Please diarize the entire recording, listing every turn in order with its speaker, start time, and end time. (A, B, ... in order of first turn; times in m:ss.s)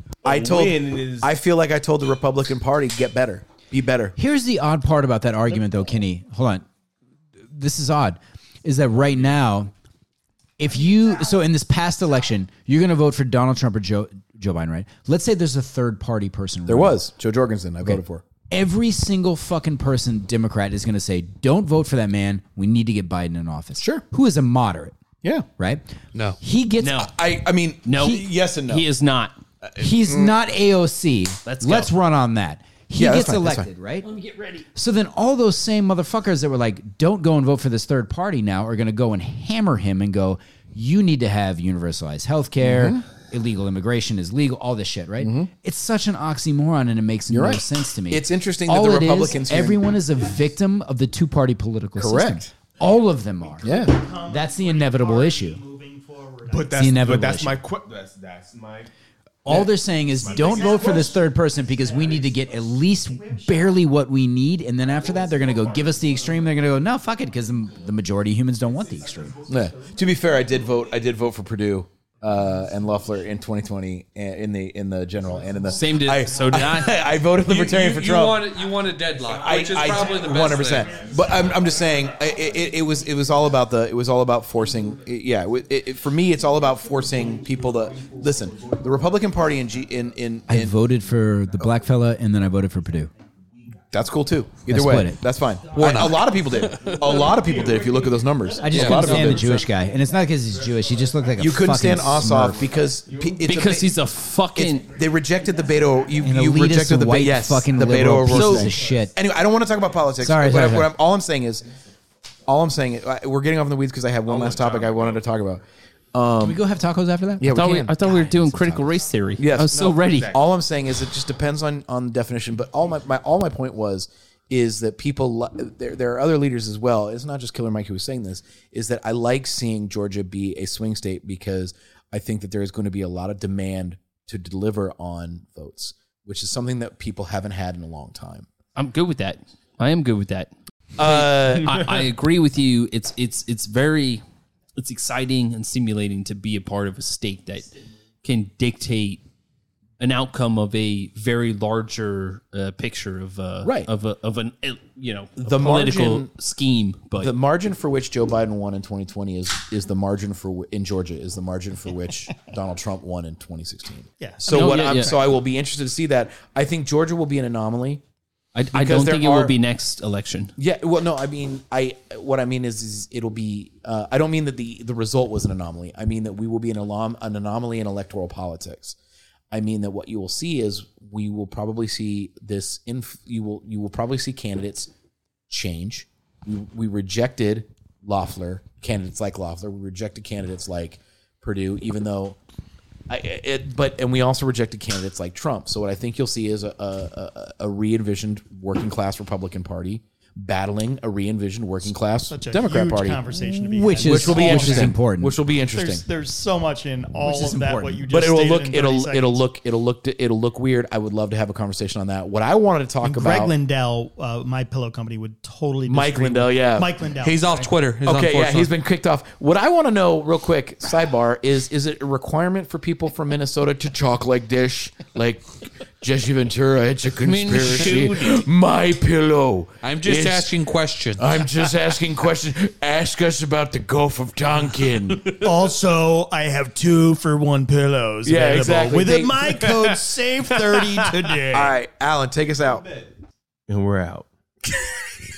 0:00.2-0:01.3 A
0:00.2-0:04.2 B
0:04.2-0:06.7 C
0:07.5-0:09.7 C
0:10.6-0:17.0 C
0:16.7-0:18.2 B
0:17.8-0:25.0 C
0:25.6-0:25.8 C
0:26.4-0:27.1 C
0:26.8-0:27.1 D
0:27.0-0:28.8 B
0:27.8-0:29.4 D
0:29.6-0:30.4 B
0:29.8-0:34.1 C
0:31.4-0:31.9 D
0:33.0-0:33.7 B
0:34.0-0:34.6 D
0:34.8-0:55.6 C
0:42.6-0:43.0 B
0:45.2-0:45.5 B
0:47.3-0:49.9 B
0:52.0-0:52.5 B
0:53.6-0:56.7 E
0:53.6-0:54.0 B
0:56.5-0:58.9 A
0:56.7-0:57.6 C
0:59.4-1:09.4 C
1:00.2-1:01.2 A
1:00.2-1:03.8 E
1:04.9-1:06.6 A
1:09.5-1:18.5 B
1:15.7-1:17.0 D
1:17.4-1:21.4 F
1:19.4-1:30.8 B
1:20.3-1:21.7 A
1:27.3-1:28.8 A
1:30.5-1:33.1 C
1:33.9-1:39.7 B
1:34.7-1:35.2 C
1:35.7-1:37.4 F
1:36.8-1:39.7 A
1:38.6-1:42.7 C
1:38.7-1:39.4 F
1:40.4-1:42.4 A
1:41.4-1:44.0 B
1:42.9-1:43.8 A
1:43.4-1:44.9 D
1:44.6-1:51.6 B
1:46.2-1:49.2 C
1:48.3-1:48.7 D
1:48.6-1:49.9 A
1:50.2-1:51.0 C
1:52.5-1:56.6 B
1:54.3-1:55.3 A
1:56.4-1:59.0 C
1:57.4-1:57.9 B
1:57.5-2:00.4 D
1:59.4-2:18.5 B
1:59.7-2:00.4 A
2:18.8-2:24.2 D
2:21.0-2:21.9 B
2:24.8-2:27.7 D
2:28.2-2:29.2 D
2:30.0-2:37.3 D
2:33.6-2:33.9 B
2:35.4-2:36.3 B
2:37.2-2:48.0 B
2:44.2-2:45.1 E
2:44.5-2:45.2 D
2:48.6-2:50.5 D
2:48.7-2:49.5 B
2:50.6-2:59.0 B
2:59.5-3:04.9 B
3:05.5-3:12.4 B
3:13.1-3:23.3 B
3:22.3-3:25.0 E
3:23.4-3:25.4 C
3:24.0-3:26.1 B
3:25.7-3:29.4 E
3:27.2-3:28.1 C
3:28.1-3:33.5 B
3:33.0-3:37.6 E
3:35.9-3:36.9 B
3:37.2-3:38.7 F
3:38.0-3:50.5 B
3:47.2-3:48.5 D
3:49.8-3:51.2 F
3:51.2-3:55.3 B
3:55.2-3:55.6 F
3:55.4-4:01.8 E
3:58.2-3:59.7 B
3:59.7-4:00.0 A
4:01.4-4:02.9 B
4:03.7-4:04.3 A
4:04.7-4:05.2 B